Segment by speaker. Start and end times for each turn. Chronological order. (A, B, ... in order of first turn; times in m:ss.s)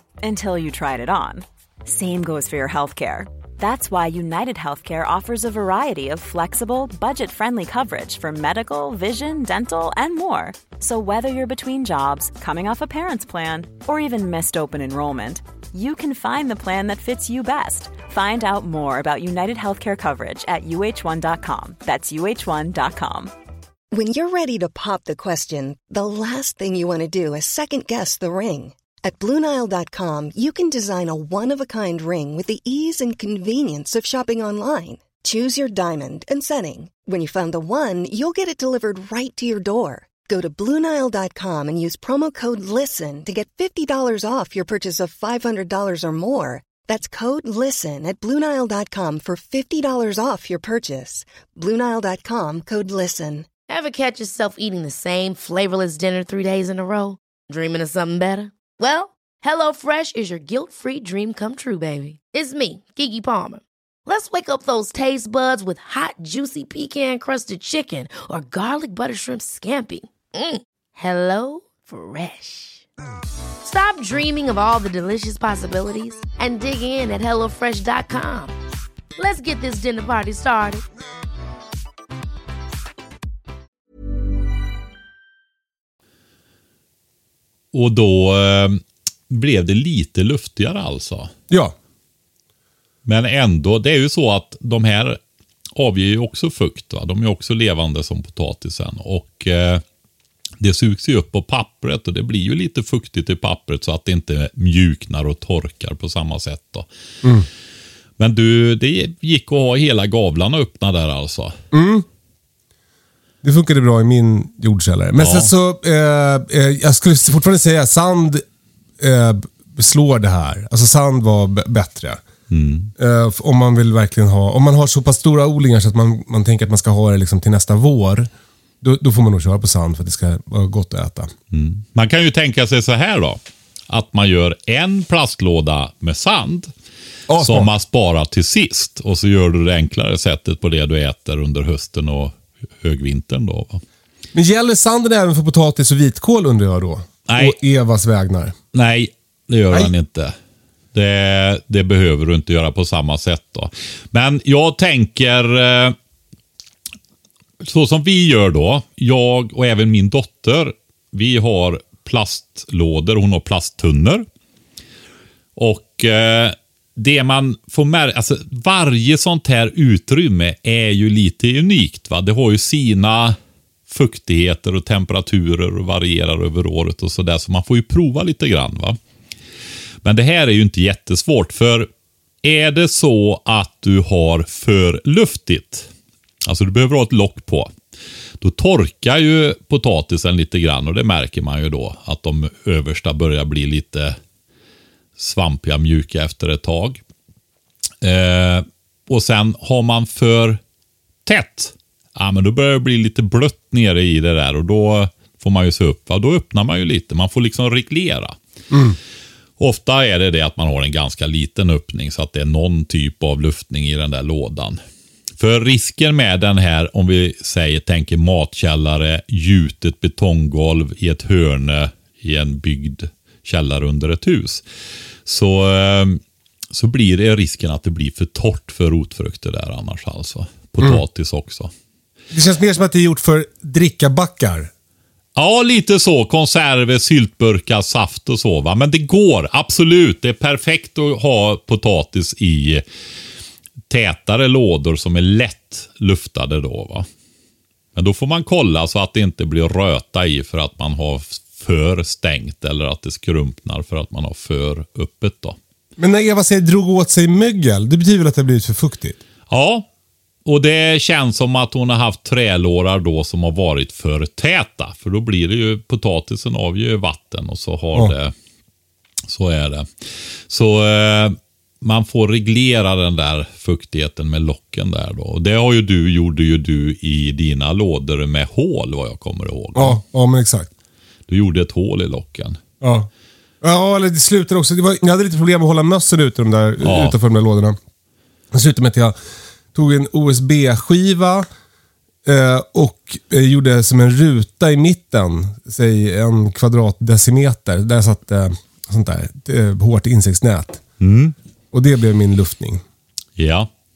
0:00.2-0:23.3 A
0:23.9-0:53.5 B
0:53.7-1:12.8 C
1:13.6-1:18.5 C
1:19.2-1:20.8 C
1:27.7-1:31.3 D
1:31.5-1:31.7 E
1:33.0-1:35.2 D
1:35.8-1:39.8 D
1:40.6-1:46.8 D
1:48.2-1:51.6 D
1:51.7-1:52.0 E
1:53.4-1:58.4 E
1:55.2-1:55.5 D
1:59.0-2:02.2 E
2:02.5-2:02.9 D
2:03.0-2:08.3 E
2:08.8-2:11.3 E
2:11.5-2:16.7 D
2:17.3-2:17.7 E
2:17.4-2:23.8 D
2:24.3-2:28.5 E
2:27.3-2:27.6 D
2:28.7-2:30.3 D
2:30.9-2:36.0 D
2:37.6-2:44.2 D
2:45.6-2:53.4 D
2:53.9-2:59.0 D
3:00.0-3:01.9 D
3:02.4-3:05.9 D
3:06.4-3:07.7 D
3:08.4-3:14.2 D
3:15.2-3:17.0 D
3:18.0-3:20.6 D
3:21.2-3:28.4 D
3:28.7-3:29.0 E
3:29.6-3:34.8 D
3:35.4-3:44.6 D
3:45.2-3:46.2 D
3:46.7-3:51.7 D
3:52.3-3:54.7 E
3:55.4-4:02.8 D
4:03.9-4:07.1 D
4:07.9-4:15.6 D
4:16.0-4:19.2 E
4:19.5-4:19.9 D
4:20.4-4:28.3 D
4:29.3-4:29.9 D
4:30.5-4:40.0 D
4:39.8-4:40.7 E
4:41.3-4:42.6 D
4:42.8-4:43.1 E
4:43.6-4:47.8 E
4:46.8-4:47.1 D
4:48.5-4:49.2 E
4:49.7-4:51.4 E
4:52.2-5:00.8 E
5:01.0-5:01.3 D
5:01.7-5:02.8 E
5:03.4-5:03.7 D